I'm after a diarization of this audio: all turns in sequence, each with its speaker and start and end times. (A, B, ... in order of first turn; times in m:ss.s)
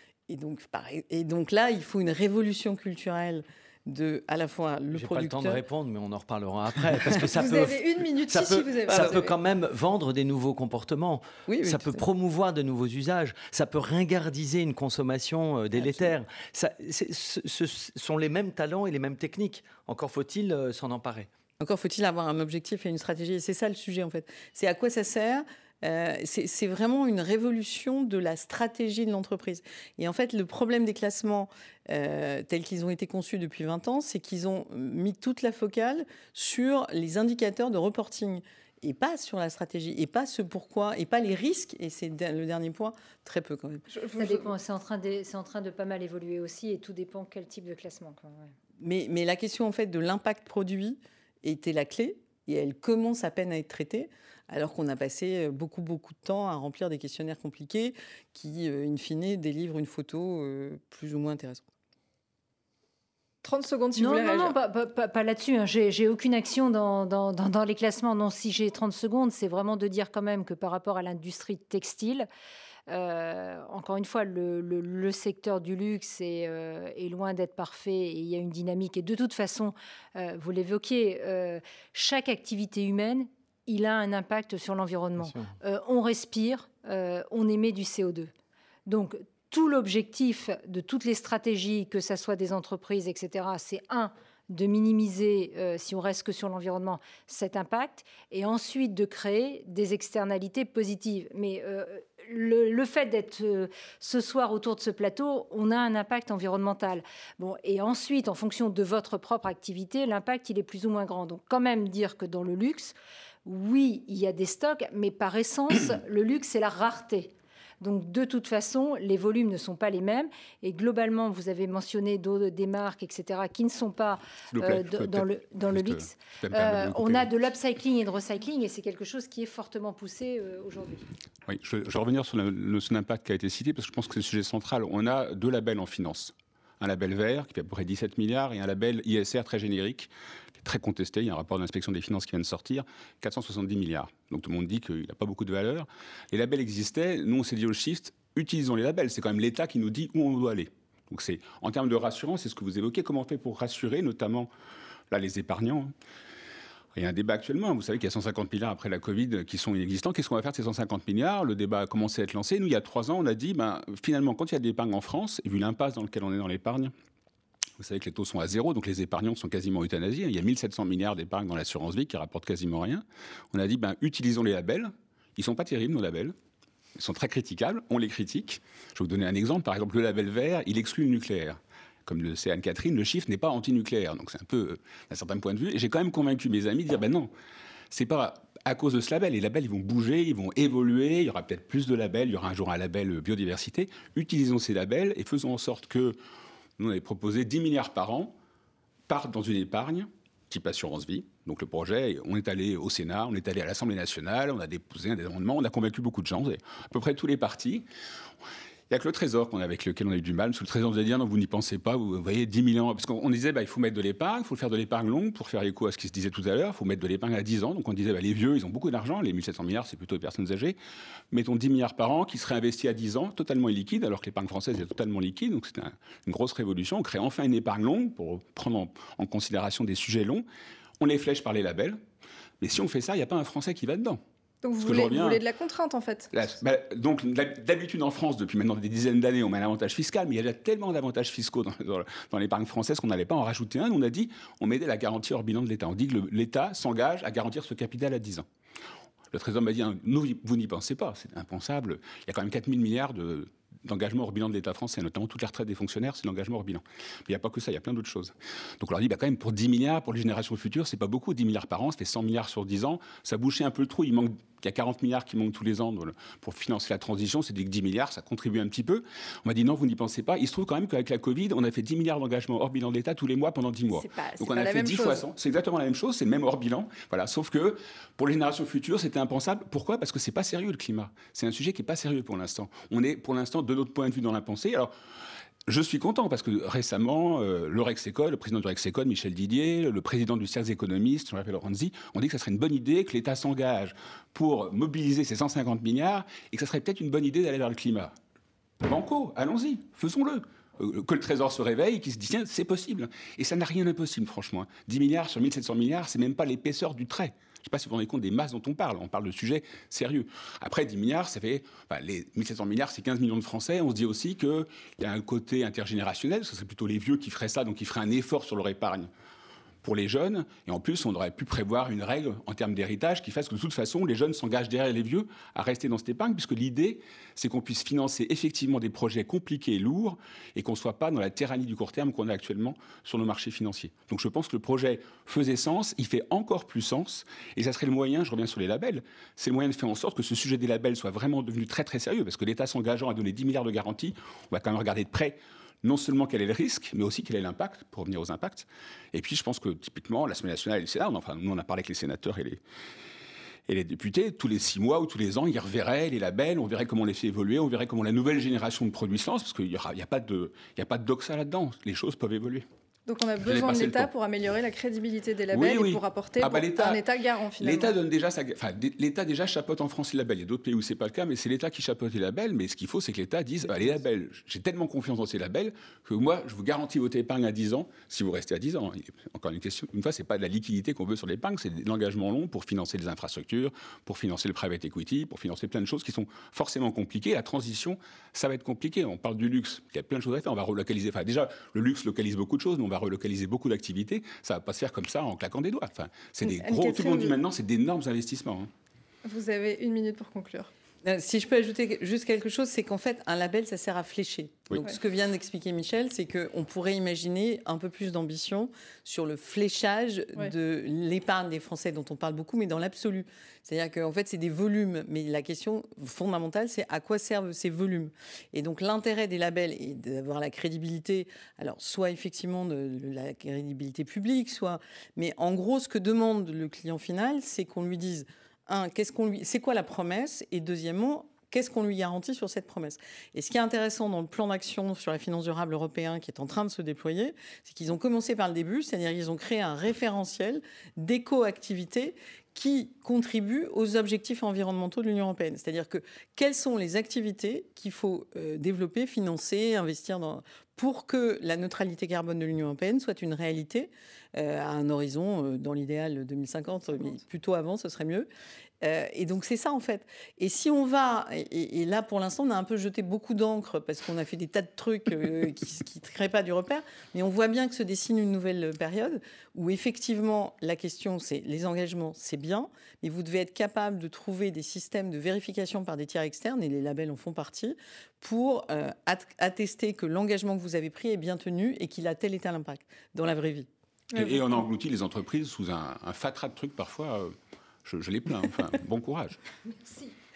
0:00.3-0:05.6 A
0:04.9-0:21.3 B
0:07.3-0:09.3 C
0:08.9-0:09.2 A
0:11.5-0:12.0 A
0:15.8-0:16.1 A
0:21.6-0:43.8 A
0:43.9-0:44.5 C
0:44.2-0:48.5 D
0:48.8-1:01.6 A
1:03.4-1:04.5 C
1:04.0-1:12.3 D
1:12.9-1:28.3 D
1:25.2-1:25.5 B
1:28.9-1:52.9 D
1:53.4-2:11.0 D
2:04.5-2:07.3 E
2:11.5-2:34.5 E
2:35.1-2:35.9 E
2:36.9-2:46.9 E
2:47.8-2:56.3 E
2:57.0-3:07.3 E
3:07.9-3:16.2 E
3:16.8-3:18.3 E
3:19.1-3:27.8 E
3:28.9-3:40.8 E
3:41.3-3:50.4 E
3:51.0-3:52.0 E
3:52.6-3:54.2 E
3:54.6-3:56.3 C
3:54.8-3:55.4 E
3:56.3-4:08.4 E
4:09.3-4:44.9 E
4:33.9-4:35.2 C
4:45.7-4:58.1 E
4:58.8-5:19.1 E
5:19.8-5:52.6 E
5:53.7-6:02.6 E
6:03.1-6:08.0 C
6:03.4-6:04.1 E
6:05.5-6:07.0 E
6:07.6-6:38.7 E
6:36.4-6:37.3 C
6:39.2-6:40.7 C
6:41.0-7:38.3 A
7:38.8-8:03.7 A
8:04.1-8:09.4 E
8:04.1-8:04.6 C